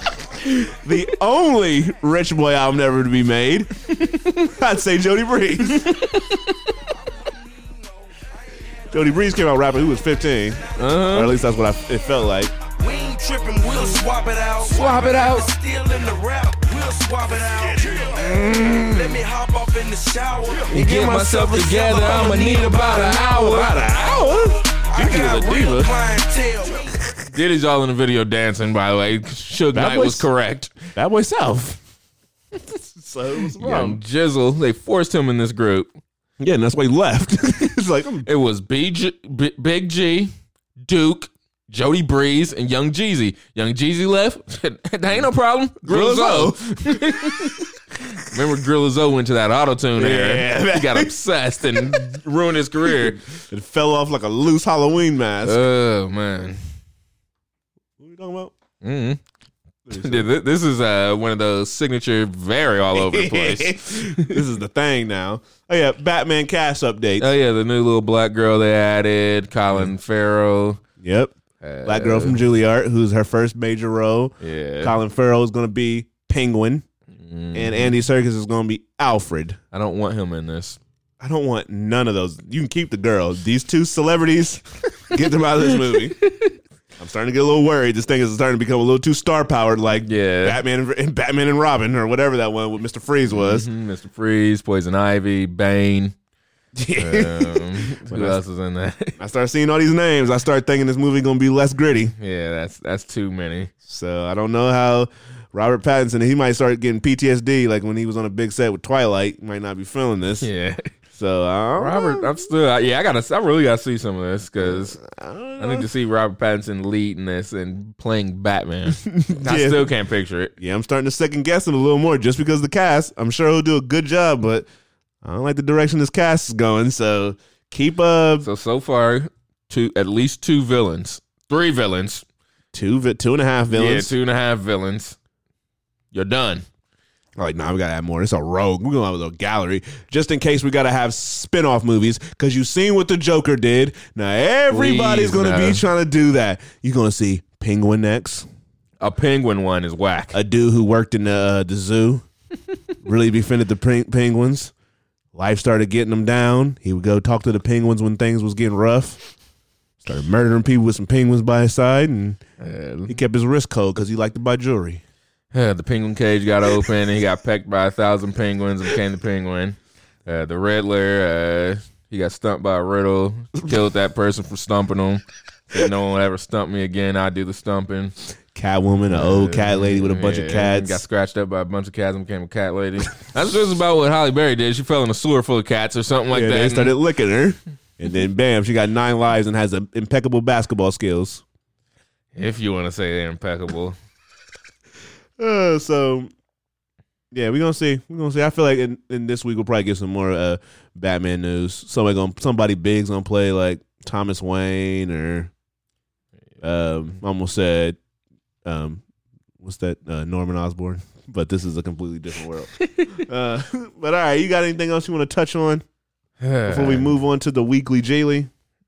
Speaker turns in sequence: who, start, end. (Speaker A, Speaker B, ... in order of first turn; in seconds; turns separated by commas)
Speaker A: 0.5-3.7, Speaker B: 3.9-4.5, Speaker A: 4.4-6.0, Speaker B: 5.6-6.6, Speaker A: 8.9-12.6, Speaker B: 10.8-11.3, Speaker C: 12.8-18.3, Speaker B: 14.6-15.5, Speaker B: 18.2-19.2, Speaker C: 18.8-23.1, Speaker A: 20.6-21.2, Speaker B: 20.7-24.3, Speaker A: 23.1-25.9, Speaker C: 24.6-27.0, Speaker B: 25.0-25.8, Speaker B: 27.3-30.7, Speaker A: 29.7-30.3, Speaker A: 30.9-31.8, Speaker A: 32.7-34.0, Speaker B: 33.6-35.9, Speaker A: 36.4-38.3, Speaker B: 38.2-40.3, Speaker B: 40.8-47.6, Speaker A: 45.8-47.6, Speaker B: 48.2-53.2, Speaker A: 50.0-51.1, Speaker A: 51.7-52.1, Speaker A: 52.8-55.6, Speaker B: 55.4-56.6, Speaker A: 58.0-58.5, Speaker B: 58.8-59.2, Speaker A: 59.9-60.3, Speaker B: 59.9-64.4, Speaker A: 62.9-67.3, Speaker B: 67.2-70.8, Speaker A: 71.0-76.8, Speaker B: 71.6-72.4, Speaker B: 74.4-75.0, Speaker B: 77.2-78.0, Speaker A: 77.5-79.6, Speaker B: 79.7-80.8, Speaker A: 81.2-86.2, Speaker B: 86.2-86.5, Speaker A: 87.0-93.7, Speaker B: 90.0-90.6, Speaker B: 93.3-96.2, Speaker A: 96.8-98.4, Speaker B: 97.0-99.2, Speaker A: 99.2-102.1, Speaker B: 102.2-103.7, Speaker A: 103.8-110.5, Speaker B: 110.4-110.9, Speaker A: 111.1-112.3, Speaker B: 111.8-115.0, Speaker A: 114.6-115.9, Speaker B: 115.6-120.5, Speaker A: 119.0-119.9, Speaker A: 120.6-124.7, Speaker A: 125.2-128.5, Speaker B: 128.4-132.2, Speaker A: 132.7-134.1, Speaker B: 133.7-135.2, Speaker B: 136.1-136.7, Speaker A: 137.4-148.5, Speaker B: 144.7-145.8, Speaker B: 149.0-150.4, Speaker A: 150.3-152.3, Speaker A: 153.0-154.7, Speaker A: 155.3-159.2, Speaker A: 160.0-162.4, Speaker B: 162.6-163.2, Speaker A: 163.1-165.0, Speaker B: 165.5-178.2, Speaker A: 178.5-181.0, Speaker B: 179.1-186.9, Speaker A: 186.3-191.4, Speaker B: 192.3-194.0, Speaker A: 195.4-196.3, Speaker A: 197.3-205.5, Speaker A: 206.6-208.0, Speaker A: 208.7-209.0, Speaker A: 209.6-215.8, Speaker B: 212.8-213.2, Speaker B: 216.4-217.2, Speaker A: 216.7-218.5